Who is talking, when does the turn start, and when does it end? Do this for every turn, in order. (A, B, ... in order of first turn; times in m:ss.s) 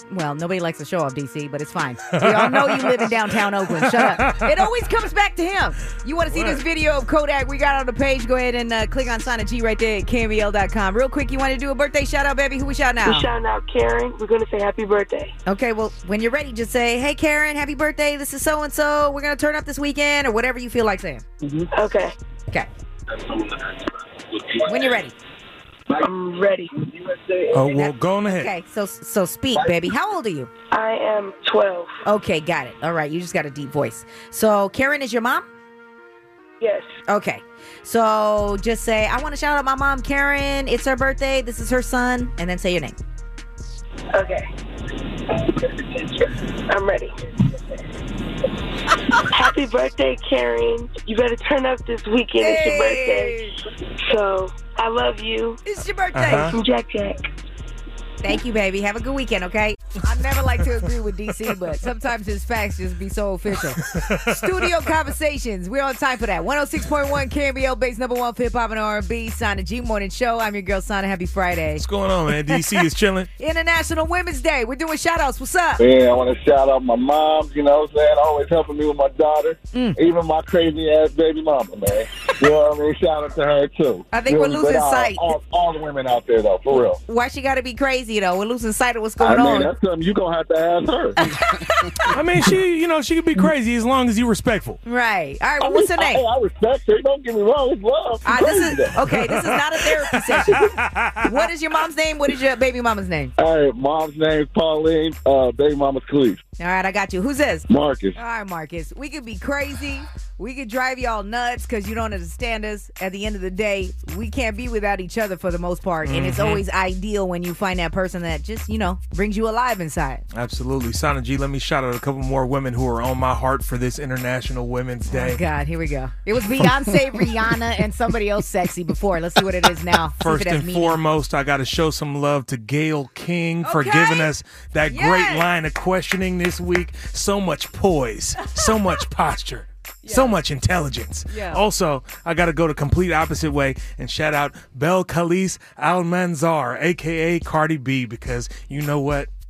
0:00.1-0:13.3 A
0:02.1-0:03.1 B
0:03.8-0:04.4 B
0:06.3-0:06.6 B
0:13.0-0:15.3 C
0:15.5-0:21.2 A
0:21.7-0:22.2 C
0:24.7-0:25.1 A
0:26.0-0:26.8 C
0:27.5-0:28.5 B
0:27.7-0:30.5 A
0:30.7-0:32.0 C
0:32.0-0:35.4 A
0:36.6-0:36.9 C
0:37.1-0:43.0 A
0:44.1-0:44.5 C
0:45.6-0:47.2 C
0:49.3-0:53.5 C
0:52.4-0:53.5 A
0:54.0-0:55.6 C
0:55.6-0:56.6 A
0:56.1-0:56.5 B
0:56.5-0:57.2 C
0:58.2-1:11.8 A
1:03.8-1:04.7 B
1:11.8-1:13.3 B
1:13.4-1:15.8 A
1:15.8-1:27.0 D
1:24.1-1:25.3 A
1:26.7-1:29.7 A
1:29.2-1:31.2 D
1:31.2-1:31.9 A
1:32.1-1:34.8 B
1:34.8-1:36.2 A
1:35.6-1:39.0 D
1:38.3-1:40.7 A
1:39.1-1:39.4 B
1:40.4-1:41.2 B
1:41.2-1:43.3 A
1:43.4-1:46.4 D
1:46.6-2:00.2 A
1:47.7-1:48.2 D
1:56.0-1:56.6 B
2:00.3-2:05.4 B
2:05.1-2:11.0 A
2:10.2-2:29.3 B
2:13.6-2:14.3 A
2:14.9-2:15.5 A
2:20.0-2:20.4 A
2:21.3-2:21.6 A